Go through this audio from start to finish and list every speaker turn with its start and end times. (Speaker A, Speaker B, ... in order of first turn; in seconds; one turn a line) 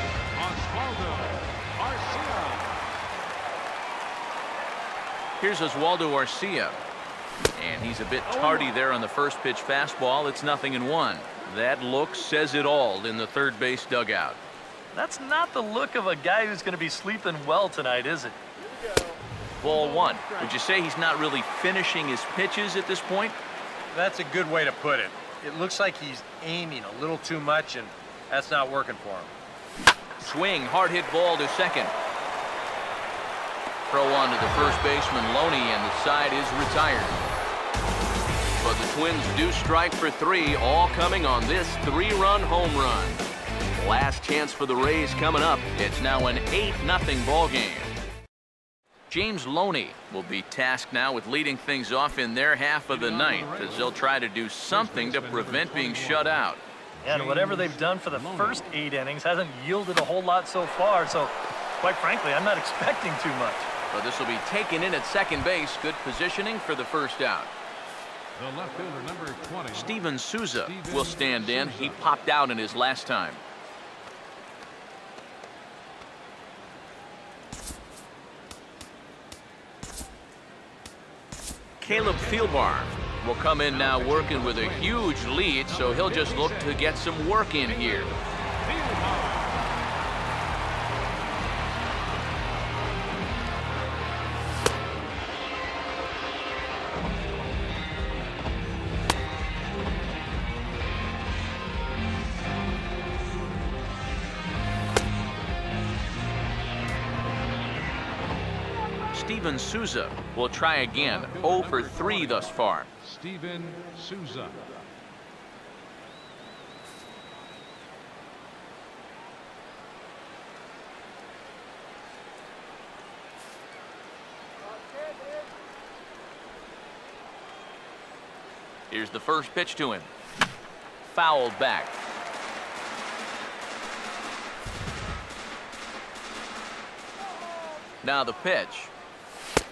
Speaker A: 0.4-2.7
Speaker B: 5.4-6.8
Speaker B: 7.5-14.4
Speaker C: 14.9-18.4
Speaker B: 19.6-23.4
Speaker D: 23.9-29.3
Speaker B: 30.2-31.9
Speaker B: 33.9-37.2
Speaker B: 38.6-43.2
Speaker B: 43.8-47.9
Speaker B: 49.1-56.6
Speaker A: 52.9-53.9
Speaker A: 54.7-56.3
Speaker A: 57.0-58.7
Speaker C: 57.0-63.7
Speaker B: 63.9-67.5
Speaker A: 68.4-69.9
Speaker B: 69.7-73.4
Speaker A: 70.6-72.0
Speaker B: 81.8-88.1
Speaker A: 83.7-85.0
Speaker A: 85.7-86.8
Speaker A: 87.7-88.0
Speaker A: 88.6-89.4
Speaker B: 109.1-112.9
Speaker A: 111.1-112.4
Speaker A: 113.0-114.7
Speaker B: 128.9-130.1
Speaker B: 131.1-131.9
Speaker B: 138.0-138.9